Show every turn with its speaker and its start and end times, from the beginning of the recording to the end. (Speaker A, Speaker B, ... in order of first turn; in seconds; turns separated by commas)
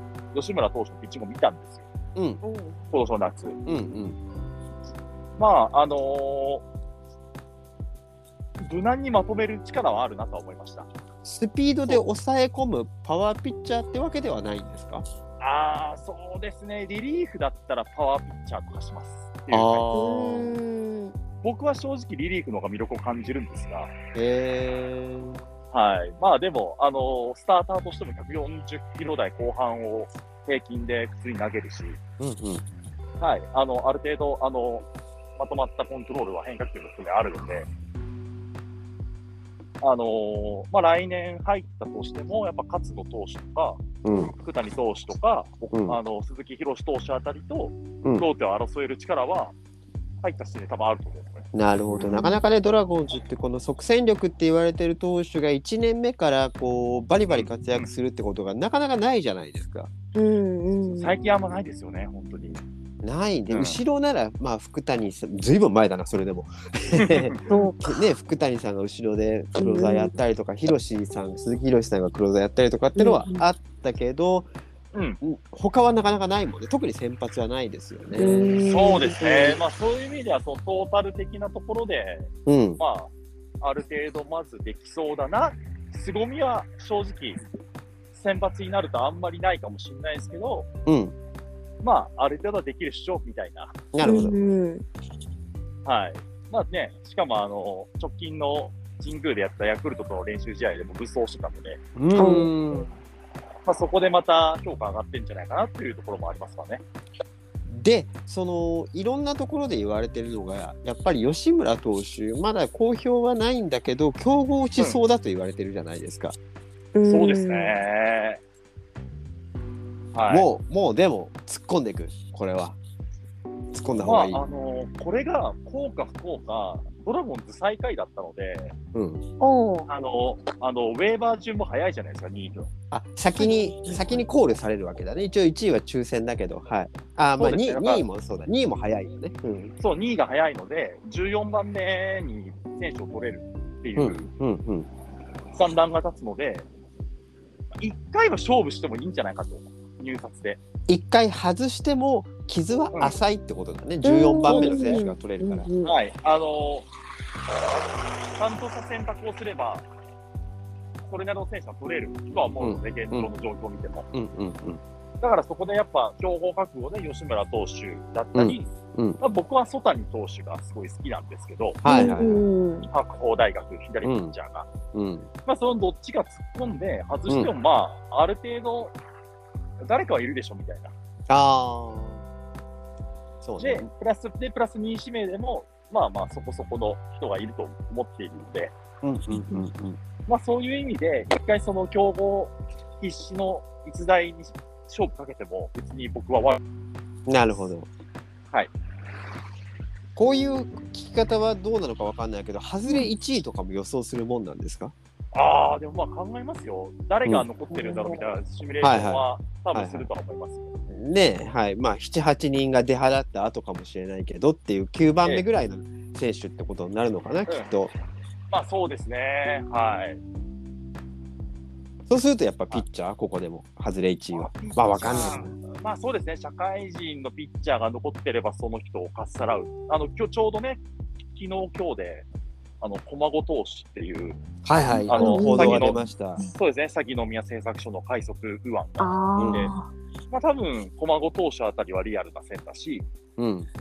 Speaker A: 0.3-1.9, Speaker B: 2.2-2.4, Speaker C: 2.4-2.8, Speaker A: 2.9-3.6, Speaker B: 3.7-4.2, Speaker A: 5.4-6.7, Speaker A: 8.6-10.9, Speaker B: 11.2-15.1, Speaker A: 15.4-19.9, Speaker B: 19.5-20.6, Speaker C: 19.9-21.1, Speaker A: 21.4-23.9, Speaker B: 24.1-25.4, Speaker A: 25.7-32.0, Speaker B: 32.2-32.6, Speaker A: 33.2-37.7, Speaker A: 39.8-49.5, Speaker B: 44.0-44.3, Speaker B: 45.7-46.0, Speaker A: 50.2-51.5, Speaker B: 51.5-59.9, Speaker C: 51.9-52.4, Speaker A: 57.3-57.9, Speaker C: 60.1-61.1, Speaker A: 61.0-62.6, Speaker B: 63.0-74.5, Speaker A: 63.5-63.8, Speaker A: 67.0-67.5, Speaker C: 67.5-67.8, Speaker C: 69.6-70.1, Speaker C: 73.0-73.5, Speaker A: 74.9-75.2, Speaker B: 75.2-78.7, Speaker C: 78.2-79.6, Speaker A: 78.7-87.4, Speaker B: 82.5-82.8, Speaker A: 88.1-90.7, Speaker B: 90.9-91.2, Speaker A: 91.8-93.8, Speaker B: 93.9-94.4, Speaker C: 94.0-94.8, Speaker A: 95.8-101.8, Speaker B: 102.0-103.0, Speaker C: 102.2-102.5, Speaker A: 103.7-106.8, Speaker B: 107.7-116.4, Speaker C: 117.0-117.8, Speaker A: 117.0-118.4, Speaker A: 120.1-120.5, Speaker B: 120.3-122.8, Speaker B: 123.7-124.4, Speaker A: 124.0-128.8, Speaker B: 128.9-129.2, Speaker C: 129.4-129.9, Speaker A: 129.9-132.7, Speaker B: 132.9-139.7, Speaker A: 137.4-138.1, Speaker A: 139.8-144.3, Speaker B: 144.0-144.9, Speaker A: 145.5-146.7, Speaker A: 147.8-150.6, Speaker B: 150.9-155.7, Speaker C: 154.0-155.9, Speaker A: 154.4-155.0, Speaker A: 155.8-156.9, Speaker A: 158.3-159.9, Speaker A: 161.1-164.1, Speaker B: 162.6-163.3, Speaker B: 164.1-164.8, Speaker A: 165.2-171.8, Speaker B: 168.3-169.2, Speaker B: 171.8-172.4, Speaker C: 171.9-172.9, Speaker A: 172.9-174.7, Speaker B: 174.0-174.3, Speaker B: 174.9-175.3, Speaker A: 175.5-178.9, Speaker A: 179.8-180.9, Speaker B: 181.3-182.2, Speaker B: 183.4-183.9, Speaker A: 183.6-188.7, Speaker B: 189.0-190.0, Speaker C: 189.3-189.7, Speaker A: 190.3-196.6, Speaker B: 197.3-197.9, Speaker B: 200.2-204.9, Speaker A: 205.3-210.7, Speaker C: 207.7-208.2, Speaker B: 208.8-210.1, Speaker B: 210.9-217.9, Speaker A: 218.5-220.2, Speaker B: 222.1-225.6, Speaker A: 224.3-230.8, Speaker A: 231.3-232.3, Speaker A: 232.8-234.4, Speaker B: 234.7-236.4, Speaker C: 234.9-236.0, Speaker A: 235.1-239.7, Speaker C: 239.0-239.9, Speaker B: 239.4-239.7, Speaker A: 240.3-243.1, Speaker B: 243.4-243.7